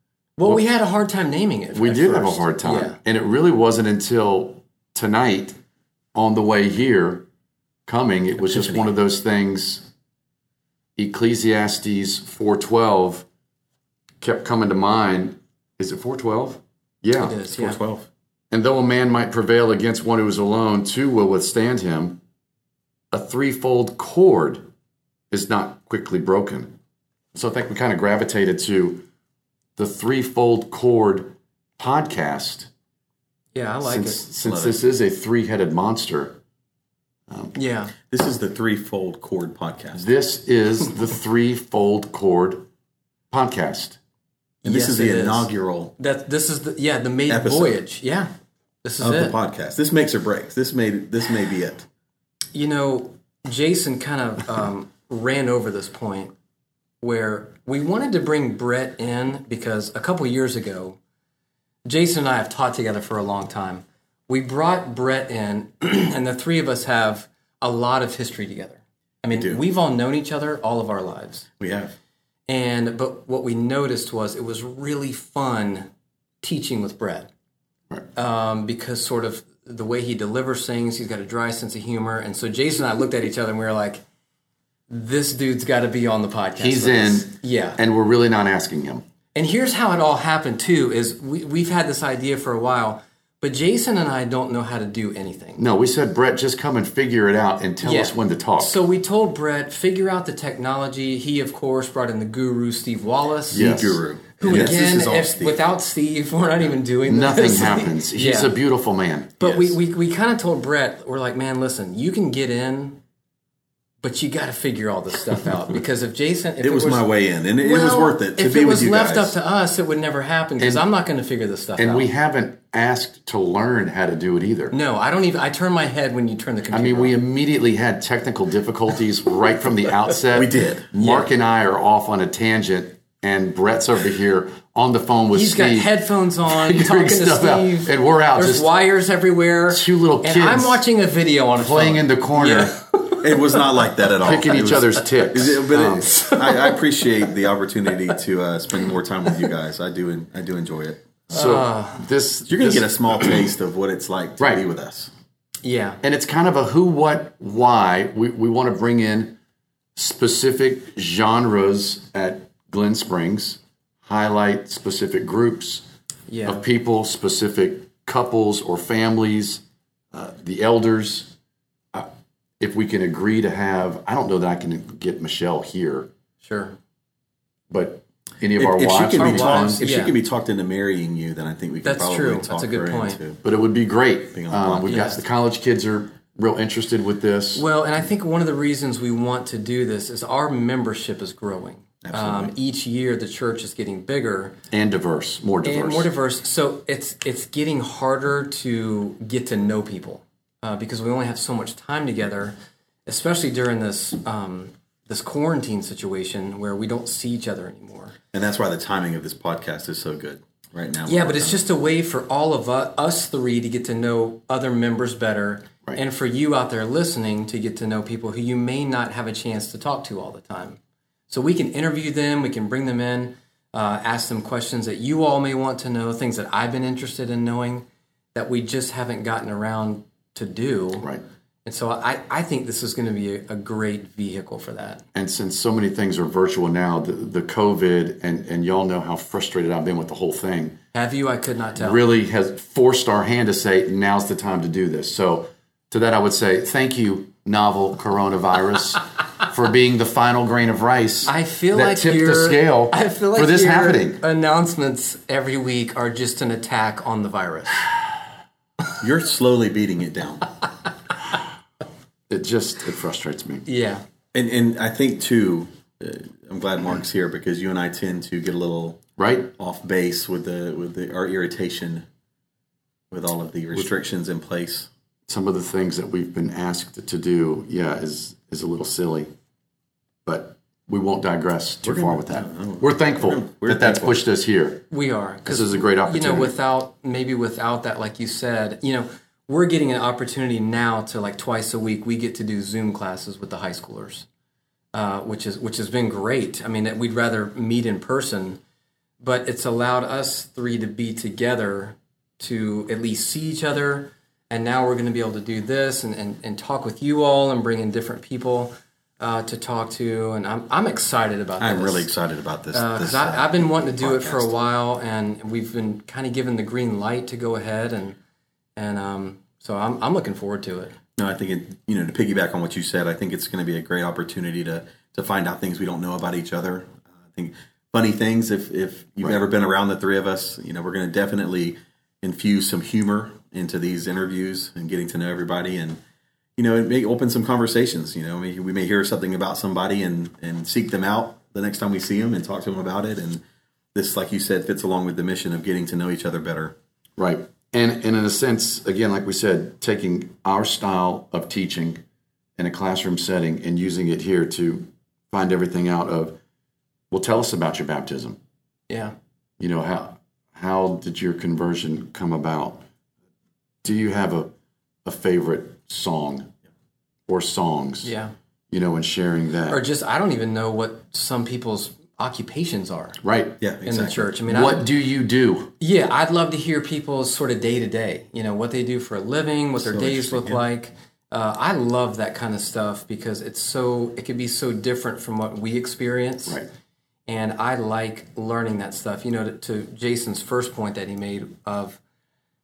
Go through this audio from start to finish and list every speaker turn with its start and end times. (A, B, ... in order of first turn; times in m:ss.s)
0:00.4-0:03.0 A
0:01.7-0:05.6 B
0:06.1-0:07.2 B
0:07.9-0:09.9 B
0:08.5-0:08.8 C
0:11.0-0:13.2 B
0:14.2-0:17.4 B
0:17.2-0:17.8 A
0:17.5-0:18.1 C
0:18.5-0:22.2 B
0:23.1-0:24.6 B
0:25.3-0:26.7 B
0:27.3-0:29.0 B
0:29.8-0:32.7 B
0:33.5-0:34.2 A
0:33.8-0:36.4 B
0:34.4-0:34.8 C
0:37.3-0:37.6 B
0:37.6-0:37.9 A
0:38.1-0:40.0 C
0:39.9-0:42.7 B
0:43.3-0:44.0 B
0:44.6-0:48.3 A
0:44.6-0:45.9 C
0:47.3-0:47.8 C
0:48.8-0:49.4 A
0:49.0-0:51.8 C
0:52.5-0:56.3 A
0:57.0-1:01.0 A
1:01.8-1:11.5 A
1:09.3-1:09.6 C
1:11.6-1:11.9 C
1:12.5-1:15.9 A
1:16.4-1:17.3 A
1:18.1-1:24.0 A
1:24.9-1:27.8 A
1:26.6-1:29.0 B
1:29.3-1:35.6 A
1:35.6-1:38.8 B
1:37.8-1:43.7 A
1:43.5-1:45.6 C
1:43.5-1:44.8 B
1:44.4-1:48.5 A
1:47.0-1:49.5 B
1:49.4-1:53.0 A
1:49.4-1:49.7 C
1:54.0-1:57.1 A
1:56.6-1:59.3 C
1:57.6-2:02.1 A
2:00.6-2:00.8 B
2:01.8-2:04.7 B
2:04.7-2:07.1 A
2:06.7-2:18.7 B
2:10.3-2:10.9 C
2:11.0-2:11.3 A
2:15.3-2:23.2 A
2:19.7-2:20.8 B
2:21.6-2:22.8 B
2:23.2-2:31.1 C
2:24.2-2:26.2 B
2:26.1-2:26.8 A
2:31.3-2:33.3 B
2:31.3-2:32.0 A
2:32.5-2:35.1 C
2:35.6-2:36.0 A
2:36.0-2:39.4 B
2:40.0-2:45.8 B
2:46.3-2:46.6 A
2:46.4-2:49.6 B
2:50.1-2:51.3 B
2:52.6-2:56.1 B
2:56.4-2:56.8 A
2:57.7-2:59.8 B
2:58.6-3:03.4 C
2:59.2-3:00.2 A
3:01.8-3:03.2 A
3:03.4-3:07.6 B
3:04.3-3:05.1 C
3:04.8-3:05.2 A
3:07.5-3:14.6 A
3:12.0-3:12.5 C
3:14.7-3:16.1 B
3:15.6-3:22.5 A
3:23.0-3:28.1 A
3:28.3-3:31.6 C
3:31.0-3:40.8 A
3:41.3-3:51.1 A
3:51.6-3:55.0 A
3:55.1-4:00.8 B
4:00.9-4:02.0 A
4:01.8-4:14.2 B
4:11.2-4:17.8 A
4:19.0-4:20.5 C
4:22.3-4:23.6 B
4:23.6-4:24.0 A
4:24.3-4:29.0 C
4:29.2-4:29.5 B
4:29.6-4:32.0 C
4:33.1-4:34.9 C
4:35.3-4:39.3 B
4:40.2-4:44.8 B
4:41.8-4:44.2 C
4:44.9-4:54.2 A
4:45.4-4:46.6 B
4:54.9-4:58.6 A
4:59.2-5:12.1 A
5:11.6-5:14.5 C
5:12.7-5:18.2 A
5:18.8-5:20.9 A
5:21.2-5:36.0 C
5:36.6-5:43.4 C
5:43.9-5:46.7 C
5:47.2-5:52.0 B
5:52.6-5:56.4 B
5:57.1-5:58.4 B
5:58.9-5:59.1 A
5:59.6-6:02.8 B
6:03.8-6:04.5 B
6:05.0-6:06.5 B
6:07.3-6:08.1 B
6:08.0-6:08.3 A
6:08.7-6:09.8 B
6:09.7-6:13.2 A
6:13.2-6:13.6 B
6:13.6-6:14.3 C
6:13.8-6:14.9 A
6:14.5-6:15.7 B
6:15.8-6:26.6 A
6:19.8-6:20.6 C
6:27.3-6:32.0 A